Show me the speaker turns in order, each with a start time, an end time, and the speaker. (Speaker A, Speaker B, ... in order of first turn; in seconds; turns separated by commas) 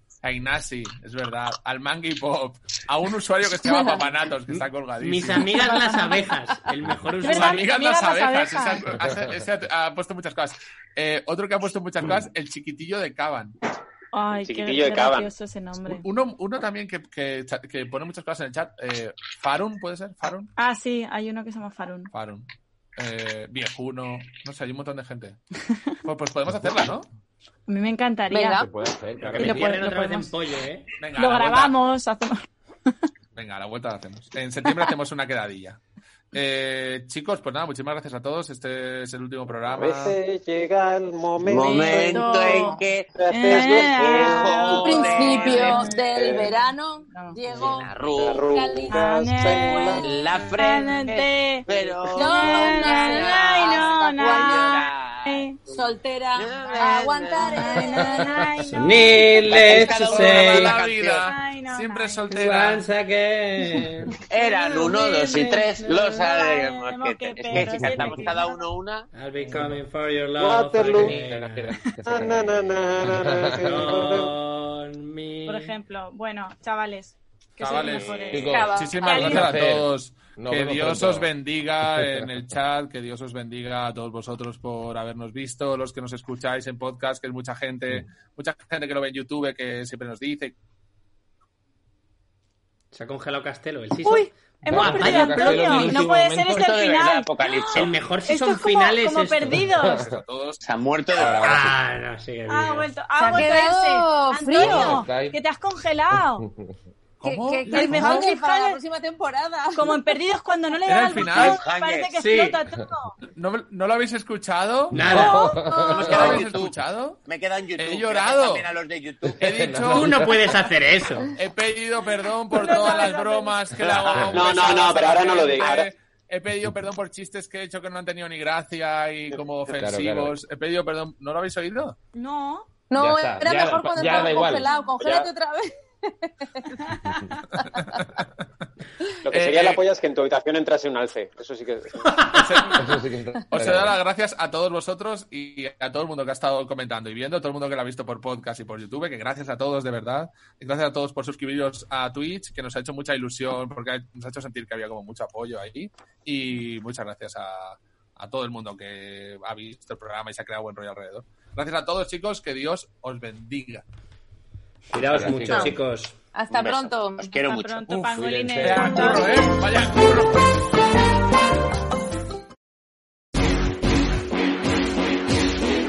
Speaker A: 0.2-5.6, Speaker B: 3.6-4.0, Speaker C: 4.5-7.7, Speaker D: 5.7-6.2, Speaker D: 7.2-8.9, Speaker A: 7.2-13.6, Speaker D: 14.1-16.0, Speaker E: 14.4-15.3, Speaker A: 15.8-20.5, Speaker D: 20.6-22.1, Speaker A: 22.1-25.4, Speaker A: 26.0-27.1, Speaker D: 27.7-28.6, Speaker B: 28.3-28.7, Speaker F: 28.6-29.8, Speaker C: 29.2-30.9, Speaker D: 29.2-30.3, Speaker A: 31.0-31.8, Speaker D: 31.1-32.4, Speaker A: 33.4-35.8, Speaker A: 36.3-40.1, Speaker E: 39.7-46.5, Speaker G: 41.4-45.9, Speaker D: 41.7-46.5, Speaker B: 44.8-50.1, Speaker D: 47.1-47.4, Speaker G: 47.5-48.5, Speaker E: 48.1-50.0, Speaker D: 48.9-55.6, Speaker G: 50.0-55.5, Speaker B: 52.1-54.8, Speaker B: 55.6-58.4, Speaker G: 56.4-57.6, Speaker D: 56.6-59.4, Speaker F: 57.8-58.4, Speaker C: 58.7-60.7, Speaker G: 59.4-61.3, Speaker A: 59.6-62.8, Speaker D: 61.2-62.2, Speaker C: 62.3-66.1, Speaker G: 64.3-69.1, Speaker D: 66.1-68.6, Speaker F: 67.5-68.2, Speaker C: 69.1-71.7, Speaker F: 69.4-69.8, Speaker E: 70.4-71.2, Speaker F: 70.8-74.0, Speaker E: 72.0-74.3, Speaker C: 73.6-75.7, Speaker D: 75.5-79.4, Speaker A: 77.6-90.5, Speaker G: 77.8-78.4, Speaker F: 78.3-81.3, Speaker B: 78.4-79.5, Speaker F: 81.8-82.3, Speaker C: 92.9-96.1, Speaker D: 94.0-100.0, Speaker F: 94.7-96.6, Speaker G: 96.5-98.0, Speaker C: 97.7-99.7, Speaker A: 99.7-100.6, Speaker F: 99.8-100.2, Speaker G: 100.6-101.7, Speaker F: 101.2-101.7, Speaker C: 101.4-102.9, Speaker D: 102.5-106.4, Speaker B: 103.2-105.0, Speaker F: 104.6-105.4, Speaker F: 106.3-106.7, Speaker A: 107.2-108.3, Speaker B: 107.2-110.0, Speaker D: 107.6-108.8, Speaker D: 109.7-113.2, Speaker A: 110.8-111.6, Speaker G: 111.2-112.2, Speaker C: 112.2-112.6, Speaker A: 113.2-115.2, Speaker C: 114.9-115.5, Speaker F: 115.0-116.4, Speaker D: 115.2-115.7, Speaker B: 115.3-116.0, Speaker G: 115.9-119.5, Speaker A: 116.0-117.2, Speaker A: 117.8-118.7, Speaker F: 119.2-120.4, Speaker A: 119.4-120.2, Speaker C: 119.9-121.3, Speaker A: 121.3-132.0, Speaker D: 122.5-125.8, Speaker E: 124.3-125.9, Speaker F: 129.7-130.3, Speaker D: 132.1-132.7, Speaker B: 132.9-136.8, Speaker F: 133.0-134.7, Speaker D: 133.9-134.9, Speaker E: 135.0-135.3, Speaker D: 136.8-137.2, Speaker E: 139.2-142.4, Speaker A: 139.3-139.8, Speaker A: 142.2-142.8, Speaker F: 142.7-144.0, Speaker A: 143.5-163.8, Speaker C: 164.9-166.2, Speaker F: 164.9-165.8, Speaker B: 165.4-165.7, Speaker B: 166.3-167.3, Speaker G: 166.5-167.9, Speaker D: 167.4-169.5, Speaker F: 168.0-169.1, Speaker A: 168.6-170.5